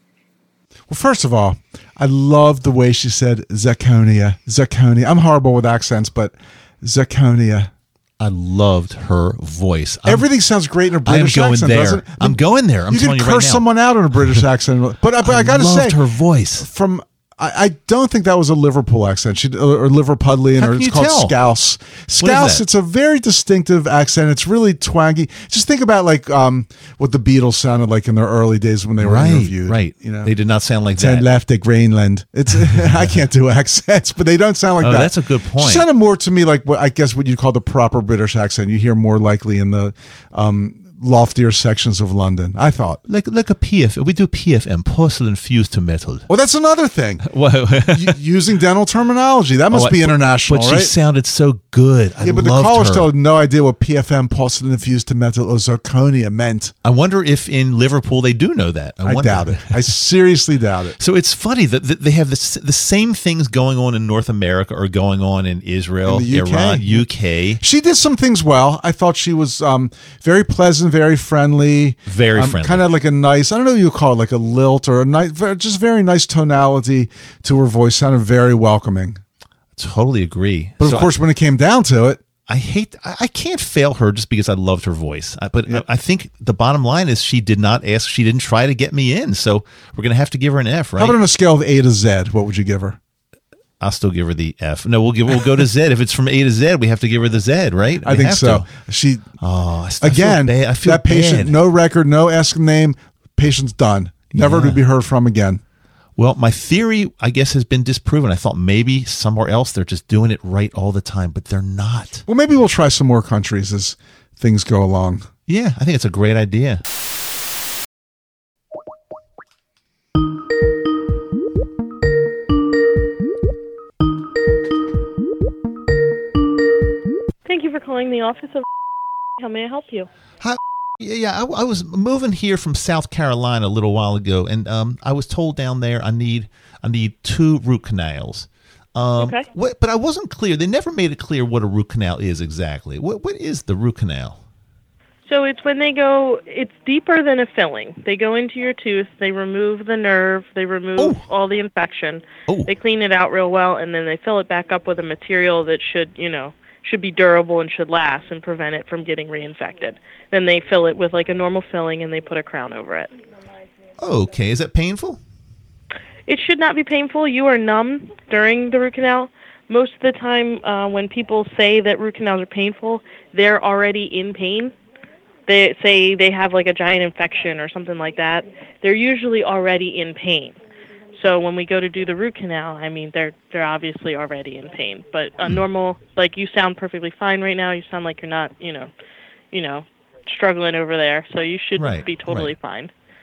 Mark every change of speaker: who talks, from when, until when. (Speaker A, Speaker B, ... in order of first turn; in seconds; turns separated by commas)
Speaker A: 0.9-7.7, Speaker B: 8.2-10.3, Speaker A: 10.0-12.4, Speaker B: 11.0-13.7, Speaker A: 12.9-16.0, Speaker B: 15.2-16.7, Speaker A: 16.6-30.3, Speaker B: 20.6-21.3, Speaker B: 22.2-22.6, Speaker B: 29.0-31.3, Speaker A: 31.0-43.0, Speaker B: 34.8-35.9, Speaker B: 43.1-46.2, Speaker A: 46.3-47.2, Speaker B: 47.2-48.1, Speaker A: 47.9-50.9, Speaker B: 49.7-53.1, Speaker A: 52.2-56.7, Speaker B: 56.8-59.7, Speaker A: 59.0-61.0, Speaker B: 61.0-67.6, Speaker A: 66.0-67.0, Speaker A: 67.6-79.2, Speaker B: 72.1-72.8, Speaker B: 79.8-81.1, Speaker A: 80.8-82.2, Speaker B: 82.5-91.2, Speaker A: 91.0-93.0, Speaker B: 93.8-98.7, Speaker A: 98.0-99.3, Speaker B: 99.4-101.5, Speaker A: 100.0-105.6, Speaker B: 104.3-104.8, Speaker B: 106.2-112.2, Speaker A: 112.3-115.3, Speaker B: 115.5-116.8, Speaker C: 127.5-128.6, Speaker C: 129.4-130.1, Speaker B: 130.4-144.4, Speaker C: 139.2-139.5, Speaker C: 145.2-163.1, Speaker B: 164.0-165.2, Speaker C: 166.3-174.7, Speaker C: 175.5-180.6, Speaker C: 181.2-188.9, Speaker C: 189.5-192.9, Speaker B: 191.8-192.5